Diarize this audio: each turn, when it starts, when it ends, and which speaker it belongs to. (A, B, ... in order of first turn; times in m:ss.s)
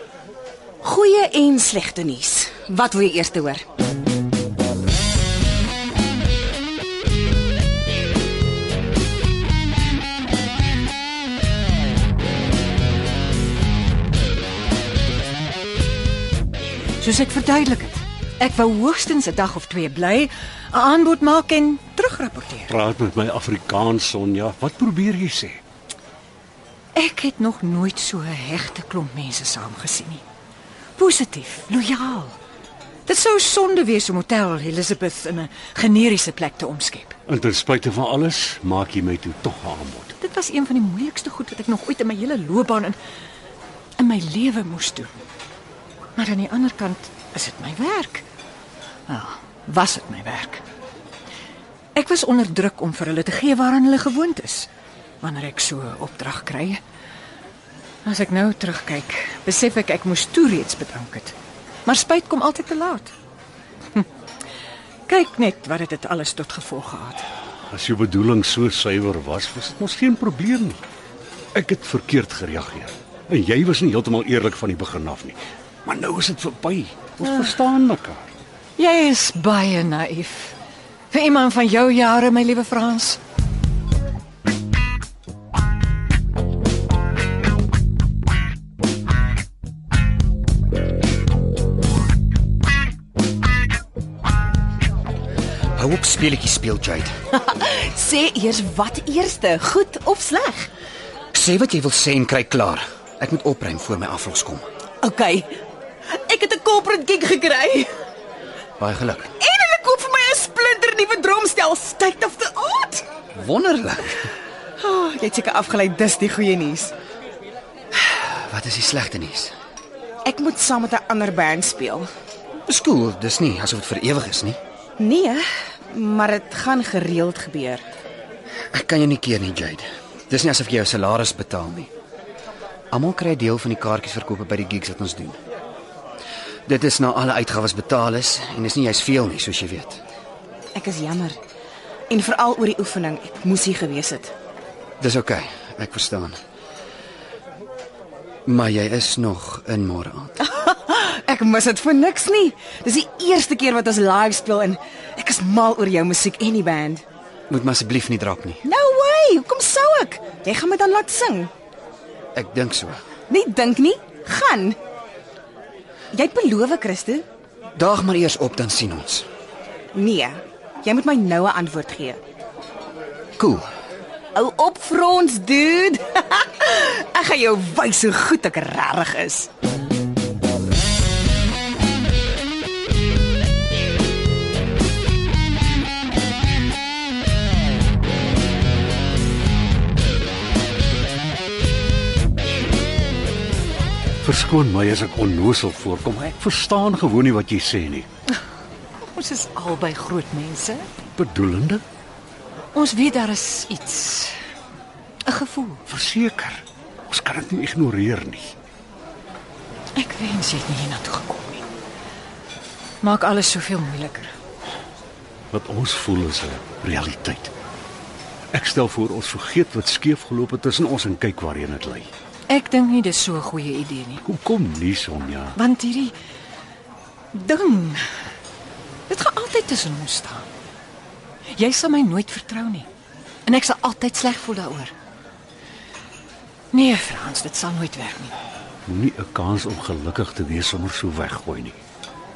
0:00.8-0:03.6 A
0:17.0-0:22.8 B
0:22.7-0:25.6 C
0:27.0-0:30.2 B
0:31.0-0:32.4 B
0:33.1-0:37.2 B
0:37.3-0:40.1 C
0:40.2-0:43.0 B
0:44.0-0:45.2 B
0:46.2-0:48.2 B
0:49.1-0:50.6 B
0:52.0-0:54.7 B
0:55.2-0:56.8 B
0:58.0-1:01.4 B
1:01.9-1:03.1 B
1:05.1-1:07.3 B
1:07.7-1:10.8 C
1:11.6-1:18.3 C
1:18.8-1:20.6 B
1:21.1-1:23.2 B
1:35.8-1:37.2 D
1:37.3-1:40.7 A
1:41.3-1:44.7 D
1:45.0-1:45.6 A
1:46.1-1:47.9 A
1:48.8-1:49.3 D
1:49.4-1:53.0 A
1:53.3-1:54.3 D
1:54.8-1:56.9 A
1:57.9-1:59.5 D
2:00.2-2:02.1 A
2:02.7-2:04.6 D
2:05.0-2:07.8 A
2:08.7-2:11.9 D
2:12.9-2:15.4 D
2:16.7-2:20.0 D
2:20.7-2:21.4 A
2:22.1-2:24.3 A
2:25.0-2:26.4 D
2:28.5-2:30.5 D
2:30.4-2:37.0 A
2:37.5-2:38.6 D
2:38.6-2:41.5 A
2:42.4-2:43.0 D
2:43.3-2:44.8 A
2:46.1-2:47.2 A
2:47.8-2:49.3 D
2:49.9-2:52.2 A
2:53.4-2:53.6 D
2:54.4-2:59.5 A
3:14.2-3:18.1 C
3:19.0-3:20.9 B
3:21.2-3:21.8 C
3:22.7-3:24.4 B
3:25.2-3:25.8 B
3:25.9-3:28.5 C
3:30.0-3:31.6 B
3:33.0-3:34.3 B
3:35.5-3:37.5 C
3:38.5-3:42.1 C
3:42.5-3:44.2 B
3:44.2-3:45.6 C
3:45.6-3:46.2 B
3:47.3-3:48.1 B
3:49.1-3:50.5 B
3:51.5-3:52.9 B
3:53.5-3:54.9 B
3:56.7-3:58.3 B
3:58.9-4:01.8 C